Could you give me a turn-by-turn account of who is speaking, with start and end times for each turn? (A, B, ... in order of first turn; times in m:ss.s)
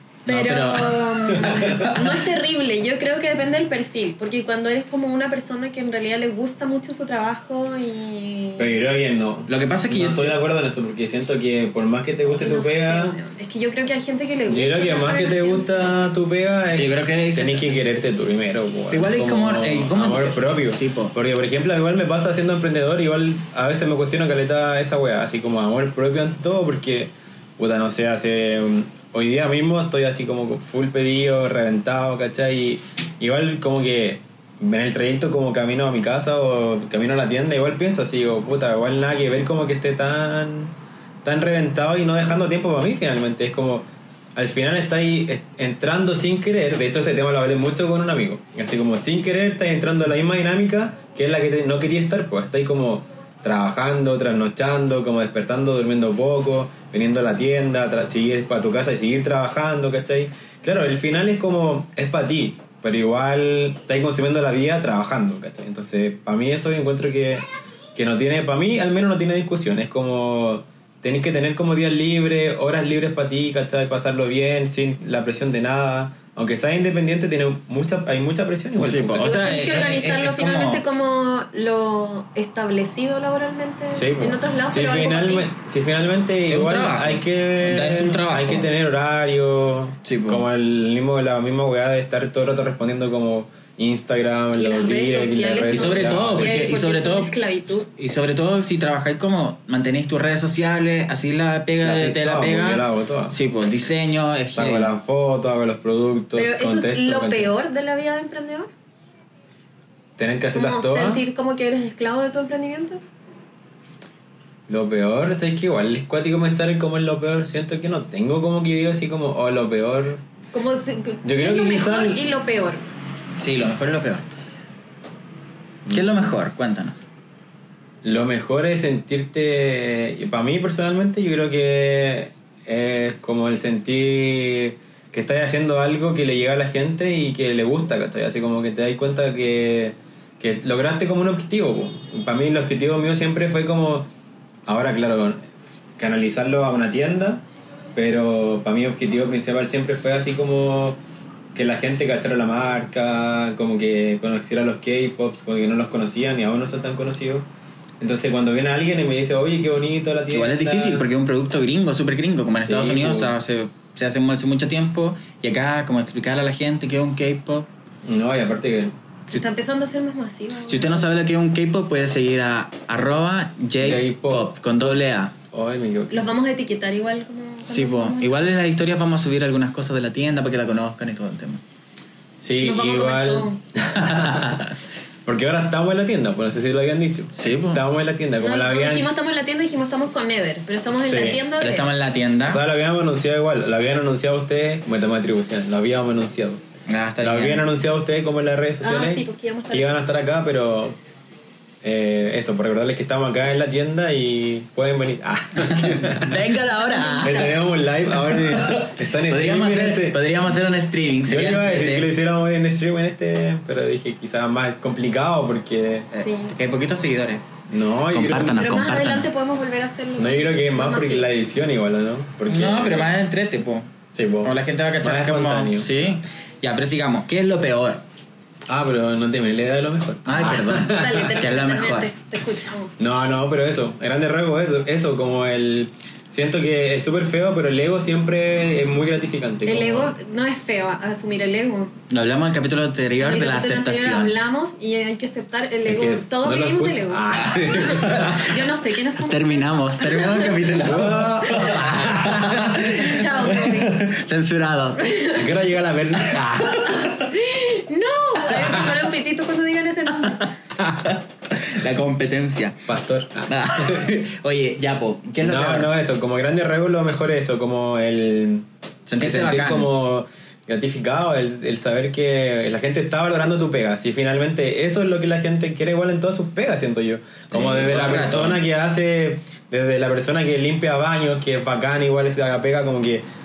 0:00.2-0:02.0 A
0:00.3-0:08.8 B
0:01.3-0:01.9 C
0:08.6-0:13.2 C
0:09.5-0:10.4 A
0:12.3-0:15.9 B
0:14.5-1:19.5 C
0:16.8-0:17.8 A
0:18.9-0:21.1 A
1:18.8-1:20.8 A
1:19.2-1:25.5 B
1:23.9-1:36.6 C
1:26.5-1:28.7 A
1:30.0-1:30.4 A
1:34.5-1:37.9 B
1:35.6-1:44.9 A
1:41.7-1:43.4 C
1:44.5-1:47.5 C
1:46.4-1:48.7 B
1:50.2-1:51.2 C
1:50.5-1:53.0 B
1:54.7-2:00.2 C
2:00.5-2:02.8 B
2:01.2-2:02.2 C
2:03.4-2:04.2 A
2:05.9-2:07.0 A
2:08.0-2:24.1 C
2:24.7-2:27.4 C
2:27.9-2:31.0 C
2:31.5-2:37.5 C
2:38.0-2:41.1 C
2:40.3-2:47.7 A
2:42.6-2:43.3 C
2:48.0-2:49.0 C
2:49.3-2:51.1 B
2:50.7-2:55.3 A
2:53.8-2:56.3 C
2:56.1-2:58.4 B
2:57.6-3:01.6 A
3:02.4-3:04.7 C
3:02.6-3:03.6 B
3:04.0-3:04.5 A
3:05.2-3:09.1 C
3:07.4-3:07.8 A
3:08.4-3:11.9 B
3:11.0-3:11.4 C
3:11.6-3:12.6 A
3:12.5-3:16.6 C
3:16.9-3:17.7 A
3:17.2-3:21.0 C
3:18.8-3:19.9 B
3:21.8-3:26.5 C
3:25.6-3:27.5 A
3:26.7-3:27.6 B
3:27.2-3:30.2 C
3:28.2-3:32.1 A
3:31.2-3:36.1 C
3:36.1-3:37.4 A
3:36.1-3:36.5 B
3:37.7-3:38.6 C
3:38.1-3:39.3 A
3:38.5-3:41.3 B
3:40.2-3:43.2 C
3:42.5-3:43.9 A
3:44.1-3:46.0 C
3:44.4-3:48.0 A
3:48.7-3:51.4 C
3:50.2-3:52.1 A
3:50.8-3:53.1 B
3:53.0-4:00.1 C
3:59.6-4:01.9 B
4:02.1-4:04.4 A
4:03.2-4:10.9 B
4:05.9-4:08.6 C
4:07.4-4:08.5 A
4:09.2-4:15.2 A
4:10.8-4:13.0 C
4:12.8-4:14.0 B
4:15.0-4:15.4 B
4:15.3-4:17.0 C
4:16.2-4:17.0 A
4:16.9-4:20.5 B
4:20.9-4:22.8 A
4:22.9-4:24.1 C
4:23.5-4:25.9 A
4:25.4-4:28.7 C
4:29.1-4:29.9 A
4:29.2-4:43.2 C
4:37.5-4:38.6 A